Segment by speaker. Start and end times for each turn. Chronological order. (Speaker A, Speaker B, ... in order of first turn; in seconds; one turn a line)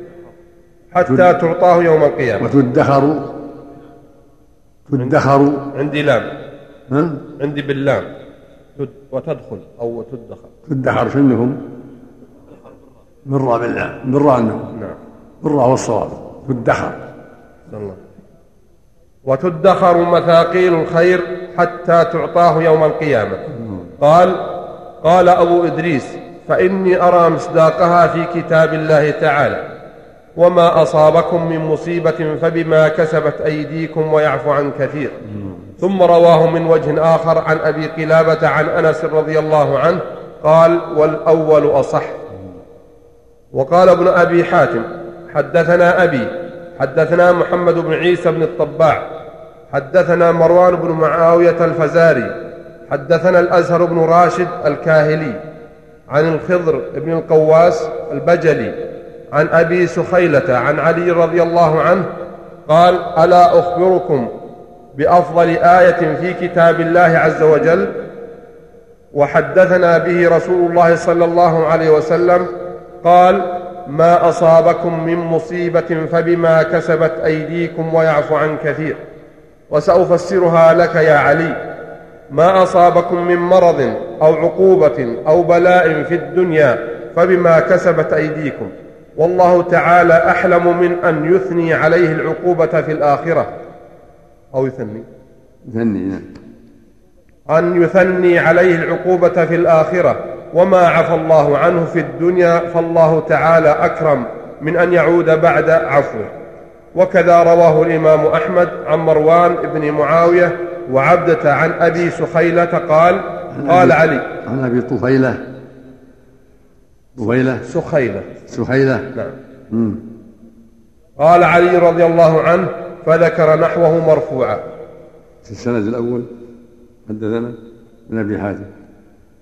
Speaker A: 0.9-2.5
Speaker B: 2.4-3.3
Speaker B: 4.9-5.6
Speaker A: 5.7-6.3
Speaker B: 6.9-7.2
Speaker A: 7.4-8.1
Speaker A: 8.8-10.5
Speaker B: 10.7-11.6
Speaker B: 13.3-14.7
Speaker B: 15.4-17.0
Speaker A: 17.7-18.0
Speaker A: 19.3-23.4
Speaker B: 23.5-23.9
Speaker A: 24.0-29.6
Speaker A: 30.4-35.1
Speaker B: 35.4-35.6
Speaker A: 35.8-42.2
Speaker A: 43.5-49.1
Speaker A: 49.7-52.4
Speaker A: 52.9-55.4
Speaker A: 56.1-58.8
Speaker A: 59.3-62.1
Speaker A: 62.7-64.3
Speaker A: 65.0-68.0
Speaker A: 69.1-72.5
Speaker A: 73.0-79.0
Speaker A: 79.7-81.6
Speaker A: 82.3-93.5
Speaker A: 94.5-95.1
Speaker B: 95.7-96.3
Speaker A: 97.5-106.3
Speaker A: 107.0-114.3
Speaker B: 113.5-115.4
Speaker B: 117.2-117.7
Speaker A: 117.7-118.3
Speaker B: 118.5-119.1
Speaker B: 119.7-120.0
Speaker A: 121.2-124.6
Speaker B: 125.5-126.3
Speaker B: 127.1-127.6
Speaker B: 128.1-128.7